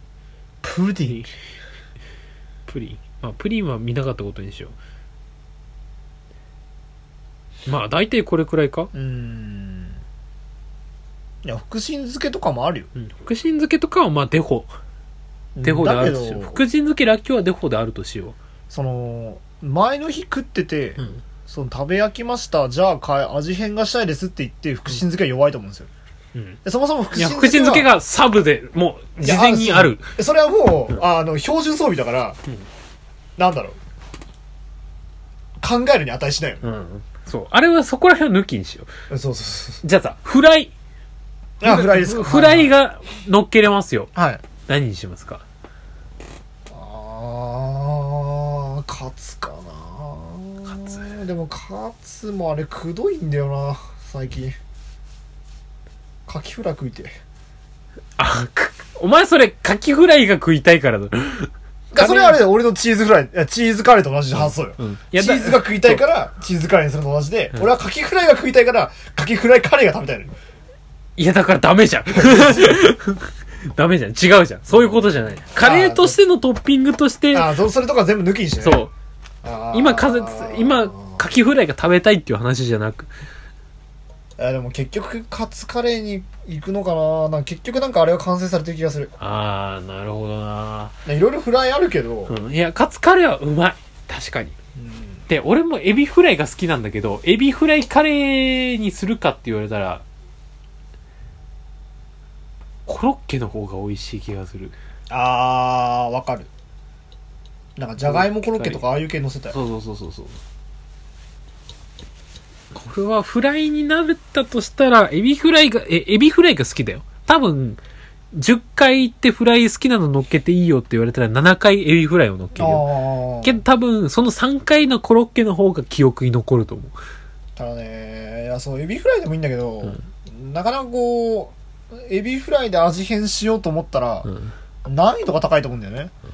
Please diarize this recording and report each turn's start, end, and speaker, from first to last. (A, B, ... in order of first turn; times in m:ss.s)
0:00.6-0:01.3 A
0:02.7-0:04.8 B
0:07.6-0:08.9 B
0:08.9-0:10.0 A
0:11.4-0:12.9 A
0:12.9-0:14.8 B
0:15.6-0:16.6 A
0:15.6-0:18.4 B
0:18.7-0:25.9 A
0:26.3-0:26.6 B
0:26.6-0:27.9 A
0:27.1-0:30.1 B
0:29.2-0:32.4 A
0:33.4-0:33.8 A
0:35.6-0:36.6 A
0:36.6-0:38.9 B
0:39.1-0:39.8 A
0:39.8-0:40.7 B
0:41.6-0:42.7 A
0:41.6-0:44.1 B
0:44.1-0:44.4 A
0:44.6-0:45.4 B
0:46.7-0:54.6 A
0:50.6-0:51.1 B
0:56.3-0:57.1 A
0:58.2-1:02.4 B
1:01.9-1:10.3 A
1:04.3-1:06.0 B
1:11.2-1:17.6 B
1:12.1-1:12.7 A
1:15.6-1:16.2 A
1:17.3-1:18.8 A
1:18.6-1:18.9 B
1:19.4-1:21.2 A
1:19.7-1:23.1 B
1:24.4-1:29.1 A
1:29.2-1:31.0 B
1:31.0-1:32.4 A
1:32.3-1:34.6 B
1:34.8-1:35.2 A
1:35.3-1:40.0 B
1:42.8-1:44.8 B
1:45.1-1:46.5 A
1:47.8-1:49.6 A
1:48.0-1:48.8 B
1:49.5-1:50.4 B
1:52.7-1:57.8 B
1:58.3-2:02.9 B
2:02.6-2:03.6 A
2:03.4-2:07.0 B
2:07.6-2:14.3 A
2:14.2-2:14.5 B
2:14.8-2:16.1 A